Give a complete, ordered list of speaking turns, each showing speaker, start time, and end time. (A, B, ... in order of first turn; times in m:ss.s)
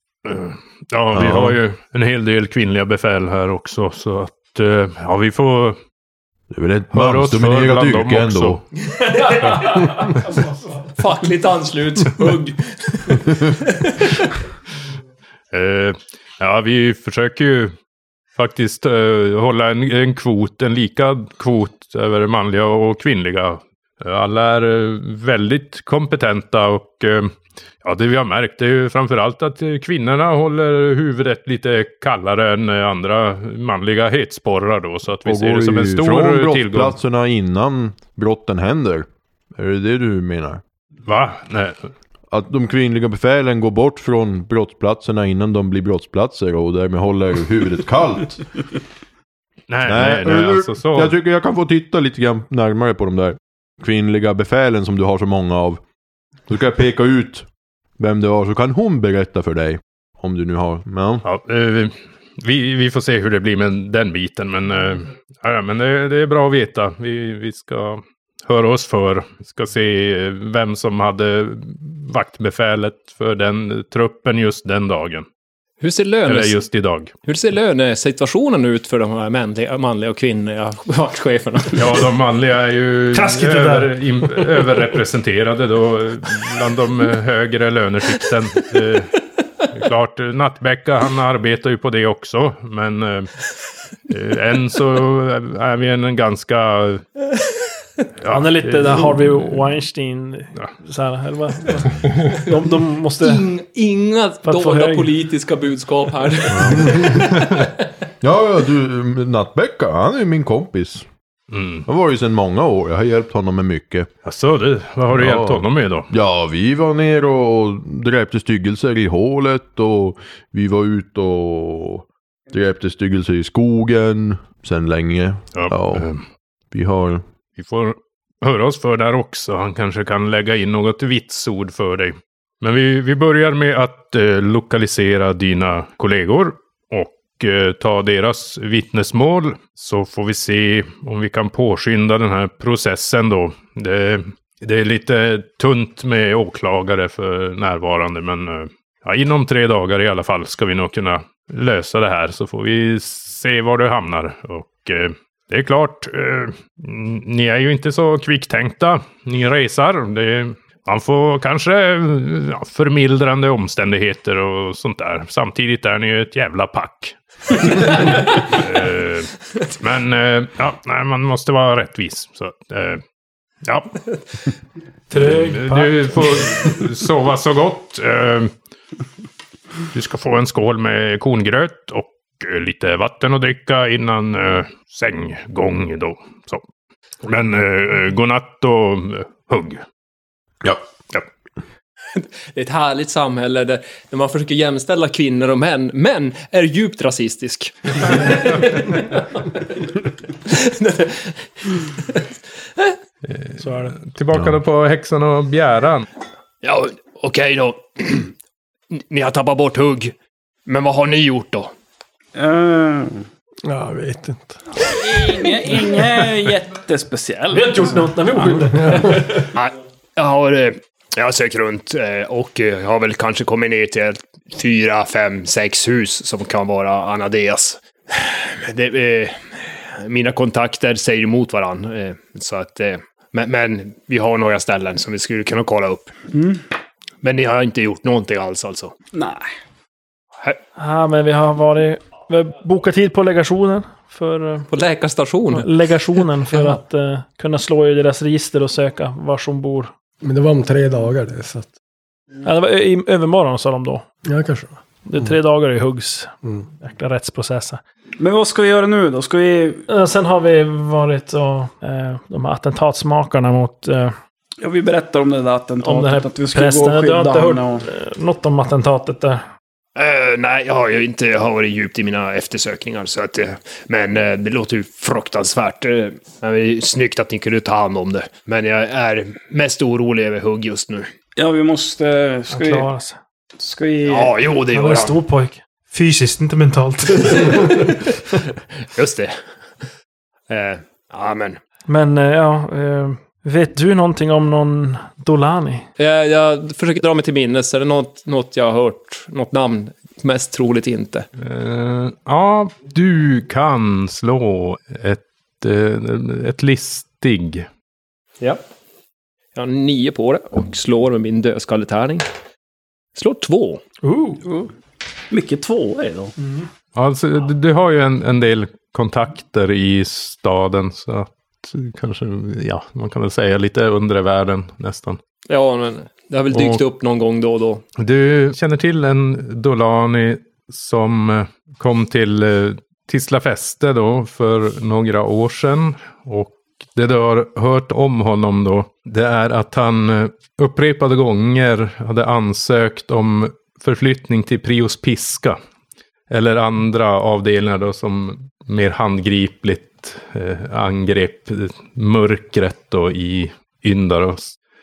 0:00.2-0:05.8 A
0:01.1-0:01.6 B
0:06.5-0:08.6 B
0:06.9-0:08.6 A
0:09.0-0:09.9 C
0:10.9-0:14.3 C
0:15.5-0:17.7 A
0:18.4-0:37.0 A
0:35.2-0:40.6 B
0:41.0-0:41.9 A
0:42.3-0:48.5 B
0:49.7-0:51.1 A
0:49.8-0:55.8 B
0:56.5-0:57.5 B
0:58.0-1:01.2 B
1:01.2-1:15.3 A
1:15.8-1:16.6 C
1:16.2-1:17.1 A
1:17.2-1:22.0 C
1:21.8-1:29.1 A
1:23.1-1:24.0 D
1:29.7-1:33.3 A
1:34.1-1:37.0 A
1:38.2-1:39.7 A
1:38.3-1:43.4 D
1:43.2-1:47.7 C
1:44.4-1:45.1 D
1:46.5-1:47.2 B
1:48.2-1:51.1 B
1:51.5-1:51.8 A
1:51.9-1:54.1 B
1:54.2-1:56.1 A
1:55.1-2:06.1 B
2:05.5-2:06.2 A
2:06.7-2:07.2 B
2:07.6-2:53.0 A
2:53.6-2:54.0 A
2:55.1-2:56.2 D
2:55.1-2:58.5 A
2:59.9-3:06.6 A
3:07.2-3:09.8 A
3:12.1-3:19.9 C
3:20.4-3:22.2 C
3:23.2-3:26.1 A
3:23.6-3:24.0 D
3:24.3-3:24.6 B
3:26.6-3:28.3 C
3:28.9-3:30.1 C
3:30.6-3:31.7 C
3:32.4-3:33.2 E
3:33.7-3:34.6 F
3:34.8-3:37.9 E
3:37.5-3:39.5 D
3:38.8-3:39.1 F
3:39.5-3:56.1 C
3:56.3-3:56.6 E
3:57.2-3:59.0 C
3:59.1-3:59.4 E
4:00.8-4:04.7 D
4:04.7-4:05.7 C
4:05.5-4:09.9 D
4:10.2-4:11.7 F
4:12.4-4:14.0 D
4:14.2-4:15.3 F
4:15.0-4:17.8 D
4:18.2-4:19.8 E
4:19.9-4:24.2 D
4:24.6-4:27.8 E
4:25.8-4:29.4 D
4:30.0-4:41.1 C
4:41.4-4:42.9 E
4:42.5-4:43.2 D
4:43.6-4:44.3 E
4:44.1-4:45.2 C
4:44.7-4:47.9 D
4:48.9-4:49.3 C
4:50.5-4:51.6 C
4:51.9-4:55.8 D
4:56.0-5:01.2 C
5:01.4-5:07.7 A
5:09.5-5:12.2 C
5:13.2-5:13.8 C
5:14.0-5:14.4 D
5:15.3-5:16.3 E
5:17.0-5:25.2 A
5:25.5-5:27.8 C
5:26.5-5:26.8 A
5:28.0-5:45.6 A
5:46.3-5:54.6 A